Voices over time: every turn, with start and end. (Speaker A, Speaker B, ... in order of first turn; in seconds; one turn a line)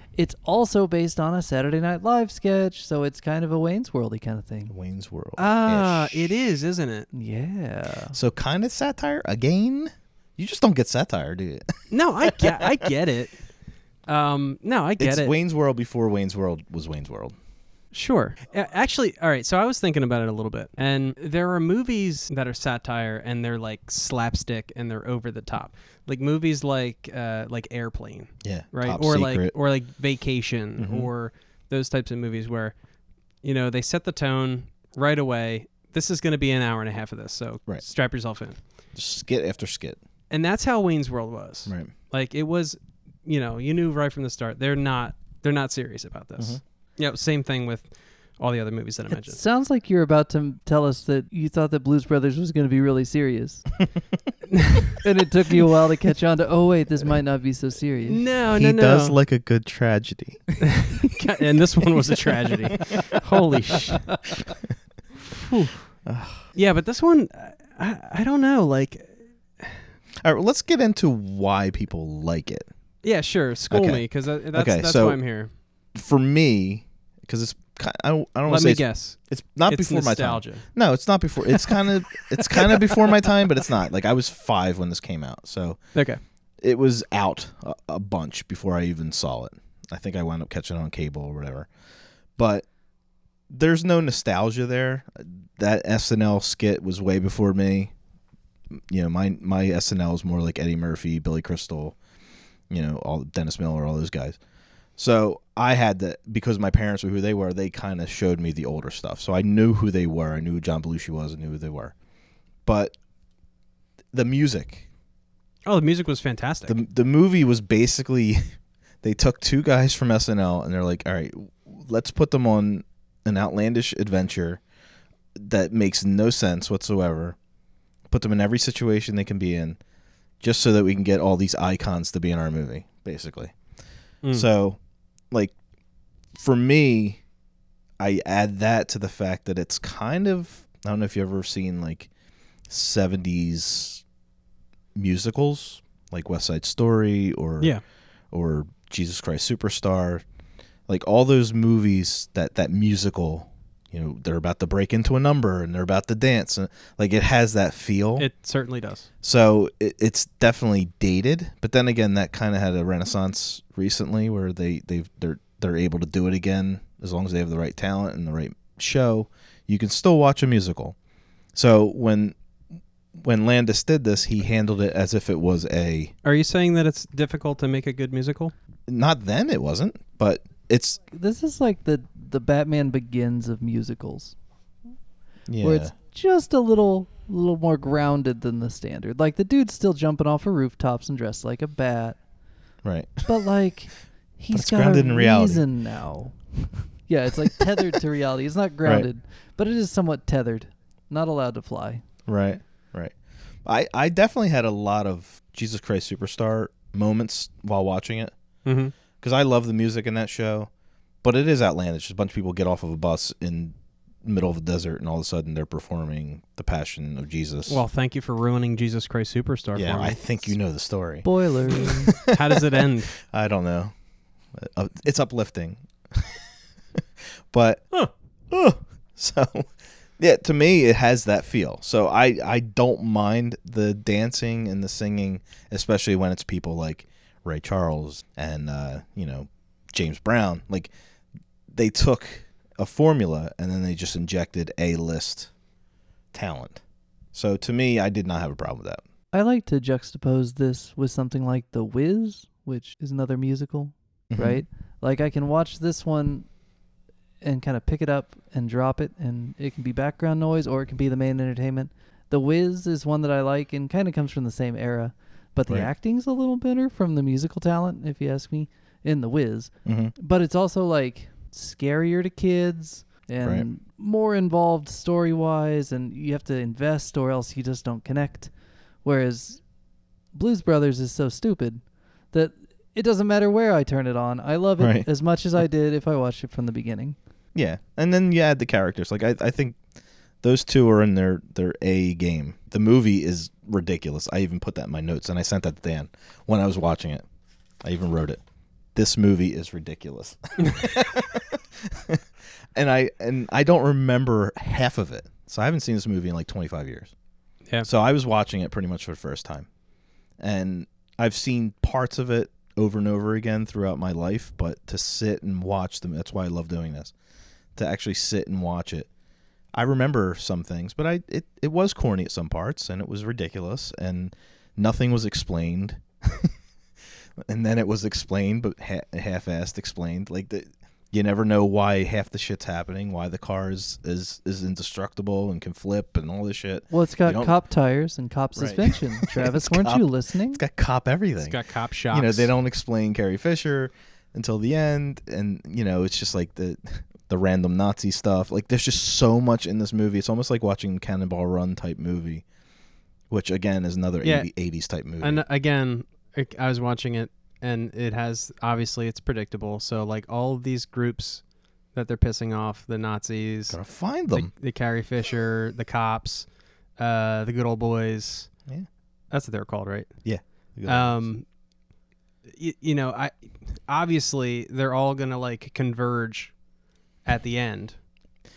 Speaker A: 0.1-4.7
Speaker B: 4.7-6.3
Speaker C: 5.4-7.1
Speaker A: 7.1-8.1
Speaker B: 8.1-12.8
Speaker C: 11.9-13.4
Speaker C: 14.1-15.3
Speaker B: 15.0-17.3
Speaker C: 17.9-32.7
Speaker B: 28.4-29.5
Speaker B: 30.8-31.1
Speaker C: 33.4-38.6
Speaker B: 38.9-40.0
Speaker C: 40.3-49.4
Speaker B: 41.6-41.9
Speaker A: 49.1-53.7
Speaker A: 55.0-58.2
Speaker C: 58.0-59.2
Speaker B: 58.5-60.5
Speaker C: 60.6-64.2
Speaker B: 62.0-62.9
Speaker C: 65.3-65.9
Speaker B: 66.0-66.5
Speaker C: 66.5-69.8
Speaker B: 70.2-72.7
Speaker C: 73.0-75.5
Speaker B: 73.7-75.2
Speaker B: 75.9-85.8
Speaker C: 78.5-80.6
Speaker C: 85.9-86.2
Speaker B: 86.6-91.7
Speaker B: 92.3-92.7
Speaker B: 93.5-97.9
Speaker B: 98.9-102.0
Speaker B: 102.7-104.4
Speaker B: 105.0-111.9
Speaker B: 112.7-112.9
Speaker B: 114.1-114.9
Speaker C: 115.7-116.8
Speaker B: 116.7-124.6
Speaker B: 125.3-127.4
Speaker B: 128.1-129.8
Speaker B: 130.4-133.6
Speaker B: 134.3-134.8
Speaker B: 136.3-137.2
Speaker B: 138.0-142.1
Speaker B: 142.7-144.0
Speaker B: 144.9-147.8
Speaker B: 148.3-150.2
Speaker B: 150.9-158.3
Speaker C: 158.2-159.1
Speaker B: 159.2-170.9
Speaker B: 171.5-172.3
Speaker B: 173.1-176.1
Speaker C: 176.2-178.5
Speaker B: 178.9-181.0
Speaker A: 181.1-184.3
Speaker B: 185.5-185.9
Speaker A: 185.6-192.2
Speaker B: 192.8-193.3
Speaker A: 193.2-202.0
Speaker B: 194.5-195.7
Speaker B: 202.3-208.3
Speaker C: 208.6-208.9
Speaker B: 209.2-210.7
Speaker B: 211.2-217.8
Speaker C: 217.7-220.4
Speaker B: 219.8-223.9
Speaker A: 221.2-222.1
Speaker C: 222.2-223.2
Speaker B: 224.5-227.9
Speaker B: 228.5-240.9
Speaker B: 241.7-245.5
Speaker B: 246.3-246.8
Speaker B: 247.3-249.0
Speaker A: 249.3-256.5
Speaker B: 254.3-254.6
Speaker A: 257.4-278.5
Speaker B: 269.8-270.1
Speaker A: 279.0-279.6
Speaker A: 280.3-287.1
Speaker B: 284.8-285.1
Speaker B: 287.5-289.8
Speaker B: 290.4-297.2
Speaker B: 297.8-298.4
Speaker B: 298.9-302.2
Speaker B: 302.7-307.1
Speaker B: 307.8-309.7
Speaker B: 310.4-317.1
Speaker B: 317.8-319.1
Speaker B: 319.7-326.5
Speaker B: 327.4-337.6
Speaker A: 336.9-340.6
Speaker B: 338.5-341.6
Speaker C: 341.4-342.5
Speaker B: 342.1-352.4
Speaker B: 353.3-355.4
Speaker C: 354.2-354.5
Speaker C: 355.2-368.5
Speaker B: 363.7-364.5
Speaker C: 369.3-370.2
Speaker B: 370.2-371.3
Speaker C: 370.8-371.4
Speaker C: 372.6-376.6
Speaker C: 377.2-378.0